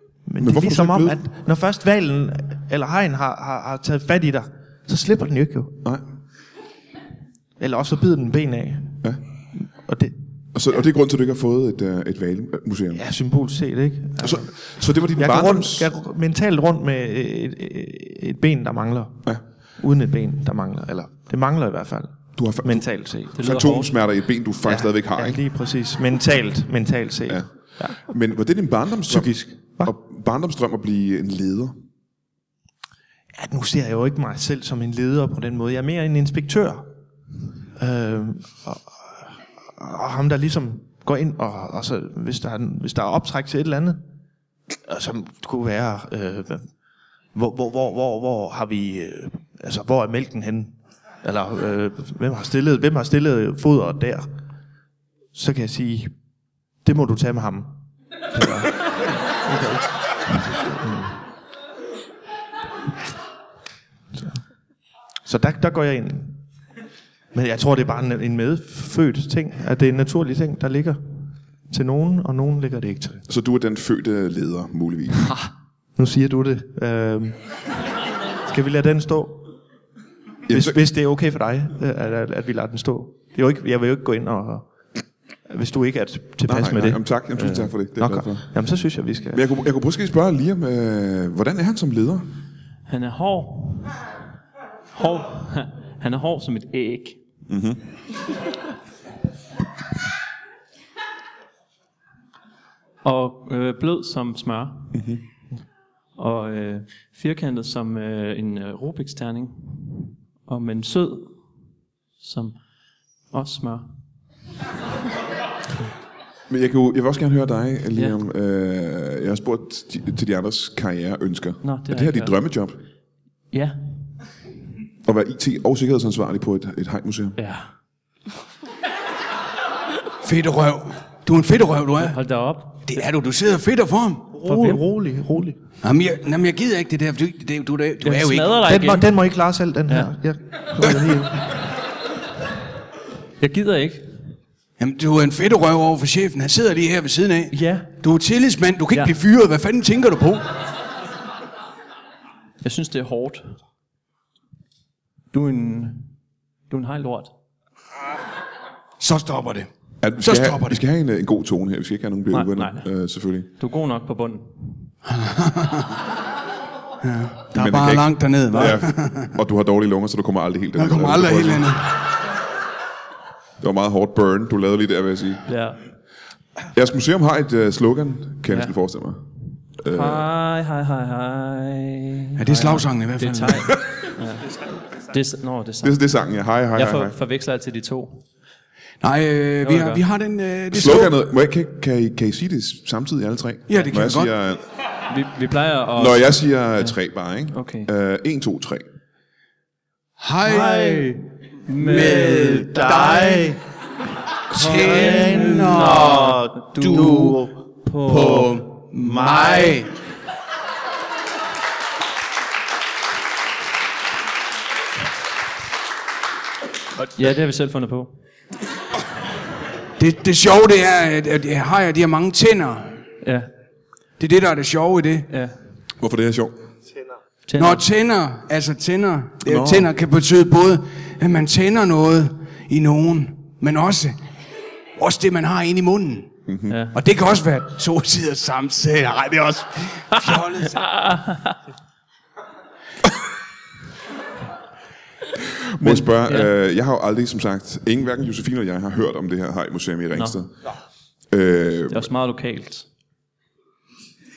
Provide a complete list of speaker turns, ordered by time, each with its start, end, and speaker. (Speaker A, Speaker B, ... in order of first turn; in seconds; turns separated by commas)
Speaker A: 0.2-5.8, Speaker B: 0.4-1.2, Speaker A: 7.6-9.0, Speaker A: 9.6-10.1, Speaker B: 10.6-13.0, Speaker A: 12.9-14.5, Speaker B: 14.2-15.9, Speaker A: 15.2-23.4, Speaker B: 22.4-25.4, Speaker C: 23.4-24.0, Speaker A: 24.6-28.0, Speaker B: 28.0-31.8, Speaker A: 29.1-29.9, Speaker A: 33.3-36.9, Speaker A: 37.8-44.0, Speaker A: 44.9-46.7, Speaker A: 47.3-54.3, Speaker A: 55.3-56.1, Speaker A: 56.8-57.8, Speaker A: 58.3-61.2, Speaker A: 65.2-66.4, Speaker A: 67.3-71.0, Speaker A: 71.7-73.2, Speaker B: 73.3-75.4, Speaker A: 76.0-77.4, Speaker A: 78.5-79.6, Speaker B: 80.5-80.8, Speaker A: 80.5-84.7, Speaker A: 85.5-89.4, Speaker B: 86.5-88.5, Speaker B: 89.3-92.2, Speaker C: 92.9-94.0, Speaker C: 94.9-97.2, Speaker B: 97.5-97.8, Speaker C: 103.0-105.0, Speaker B: 104.9-105.2, Speaker C: 106.2-111.4, Speaker C: 112.2-112.6, Speaker C: 113.3-113.9, Speaker B: 116.5-122.8, Speaker C: 121.6-122.3, Speaker C: 123.5-123.8, Speaker B: 125.0-127.4, Speaker C: 127.4-127.7, Speaker D: 130.2-132.2, Speaker C: 132.0-133.0, Speaker D: 132.8-134.4, Speaker A: 134.3-135.6, Speaker C: 134.5-134.8, Speaker D: 135.8-138.7, Speaker C: 138.0-139.1, Speaker A: 138.7-141.6, Speaker C: 139.9-140.1, Speaker C: 143.4-144.1, Speaker D: 144.8-150.6, Speaker C: 147.5-147.9, Speaker C: 152.6-153.6, Speaker C: 155.3-156.1, Speaker C: 156.7-157.3, Speaker D: 159.0-159.7, Speaker B: 160.0-163.5, Speaker D: 160.2-160.8, Speaker C: 162.3-162.9, Speaker C: 163.6-164.9, Speaker D: 165.1-166.0, Speaker D: 167.0-169.4, Speaker B: 167.5-171.7, Speaker D: 170.7-172.0, Speaker B: 173.6-175.4, Speaker C: 175.5-175.8, Speaker B: 176.7-179.2, Speaker C: 178.5-178.7, Speaker B: 179.8-180.3, Speaker C: 179.9-186.0, Speaker D: 182.4-183.7, Speaker B: 185.8-187.2, Speaker C: 186.7-188.2, Speaker D: 189.0-191.2, Speaker C: 189.6-190.0, Speaker B: 190.7-194.6, Speaker D: 193.7-194.3, Speaker C: 195.1-197.0, Speaker B: 196.0-198.8, Speaker C: 197.5-197.9, Speaker D: 200.2-201.2, Speaker A: 200.4-201.1, Speaker C: 200.5-202.7, Speaker D: 201.8-203.5, Speaker A: 201.9-203.6, Speaker D: 204.5-207.3, Speaker C: 204.5-208.5, Speaker A: 204.6-207.5, Speaker A: 208.0-209.8, Speaker D: 208.0-209.9, Speaker C: 217.0-218.1, Speaker D: 220.0-223.0, Speaker C: 223.2-223.5, Speaker D: 224.2-225.3, Speaker C: 225.3-225.6, Speaker B: 226.0-226.5, Speaker C: 227.5-227.8, Speaker D: 227.6-234.2, Speaker B: 229.4-229.9, Speaker D: 235.0-236.3, Speaker B: 236.5-236.8, Speaker C: 236.7-237.0, Speaker D: 236.9-240.9, Speaker C: 240.1-241.6, Speaker B: 245.6-250.5, Speaker C: 245.8-246.5, Speaker C: 250.1-250.4, Speaker B: 251.3-252.1, Speaker C: 251.9-252.8